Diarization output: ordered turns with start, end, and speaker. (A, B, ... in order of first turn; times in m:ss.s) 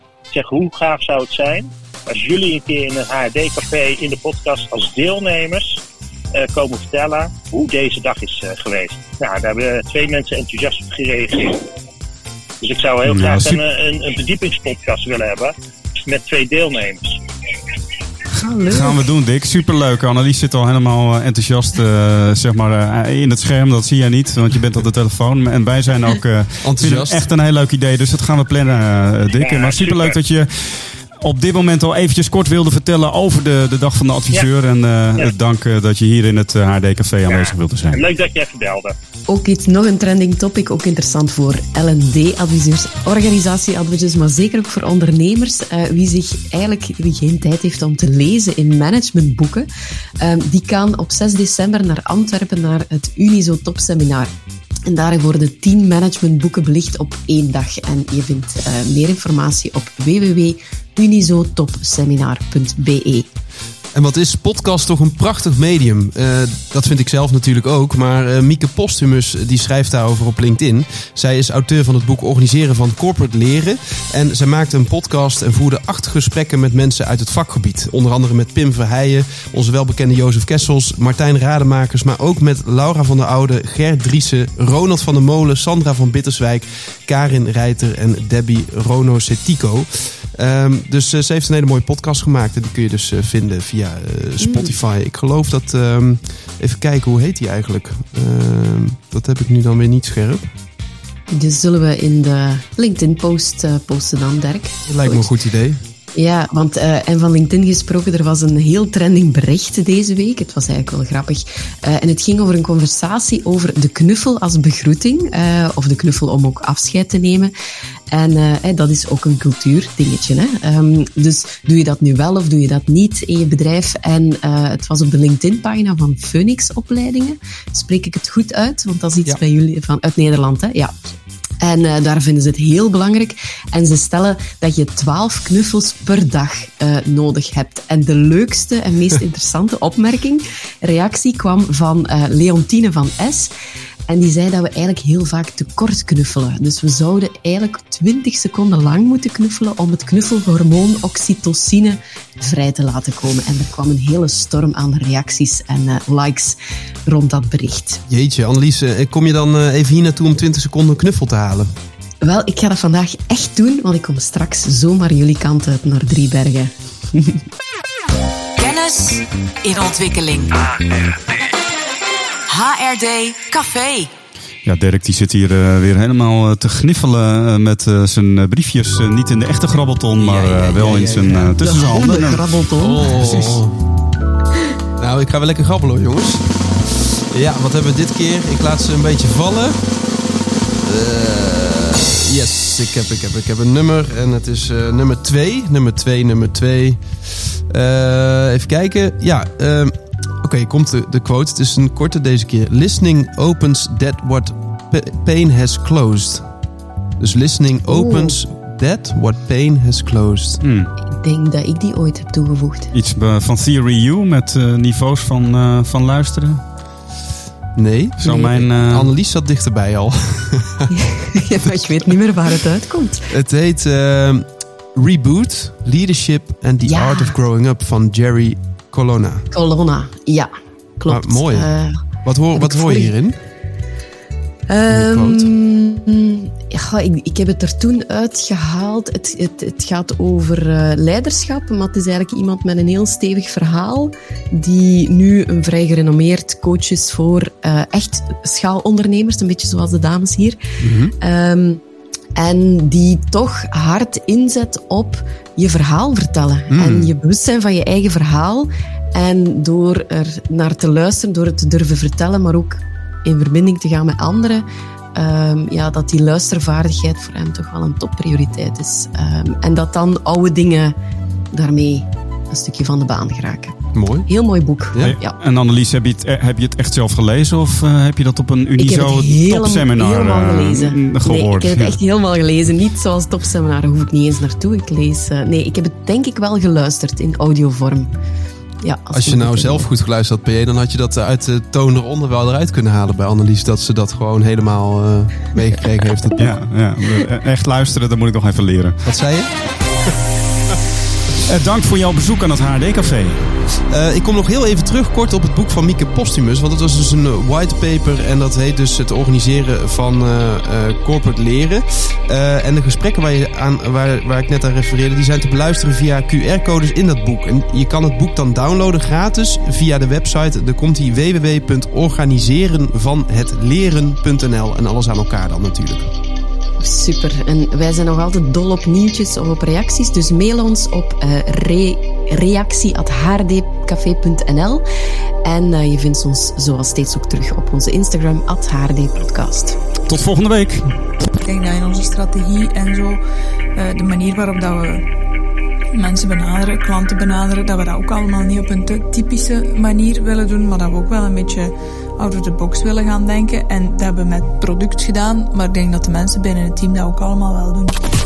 0:00.3-0:05.8 A
0:06.4-0:11.6 A
0:12.6-0:17.2 A
0:13.0-0:13.6 B
0:18.4-0:19.1 C
0:18.7-0:38.0 B
0:26.6-0:27.3 D
0:29.4-0:30.2 A
0:37.3-0:38.9 A
0:39.3-0:49.7 C
0:50.2-0:54.3 C
0:54.9-1:03.3 C
1:03.9-1:40.5 D
1:34.4-1:34.7 C
1:41.3-1:45.3 C
1:44.9-1:45.8 D
1:46.2-1:57.5 C
1:58.1-2:10.9 C
2:11.6-2:23.5 C
2:24.1-2:38.0 C
2:38.1-2:41.7 D
2:42.2-2:46.7 C
2:48.6-2:50.5 E
2:52.5-2:54.1 E
2:54.6-3:02.6 B
3:00.2-3:01.4 D
3:01.6-3:03.6 C
3:02.8-3:03.8 D
3:05.0-3:06.5 D
3:07.3-3:09.8 D
3:10.8-3:26.5 D
3:27.2-3:30.6 D
3:27.9-3:28.4 C
3:30.6-3:30.9 B
3:31.1-3:32.9 C
3:32.9-3:36.6 B
3:37.7-3:40.8 D
3:38.2-3:39.1 B
3:40.9-3:43.2 C
3:43.3-3:49.4 D
3:46.8-3:47.3 C
3:49.5-3:52.0 C
3:51.1-3:51.7 D
3:52.2-3:53.4 D
3:52.5-3:53.1 C
3:54.7-4:10.6 C
3:54.9-3:55.5 D
4:10.8-4:11.1 D
4:11.2-4:11.8 C
4:12.4-4:24.6 C
4:16.7-4:17.1 D
4:25.1-4:30.9 C
4:31.5-4:35.4 C
4:33.9-4:34.3 D
4:35.0-4:42.0 B
4:38.8-4:48.1 C
4:48.8-4:49.9 C
4:49.1-4:56.5 D
4:56.4-4:59.0 B
4:59.0-5:00.1 D
5:01.4-5:03.6 B
5:03.9-5:26.1 D
5:26.8-5:34.8 C
5:35.4-5:39.8 C
5:40.1-5:41.0 B
5:41.4-5:43.2 F
5:43.7-5:45.0 F
5:45.9-5:57.9 F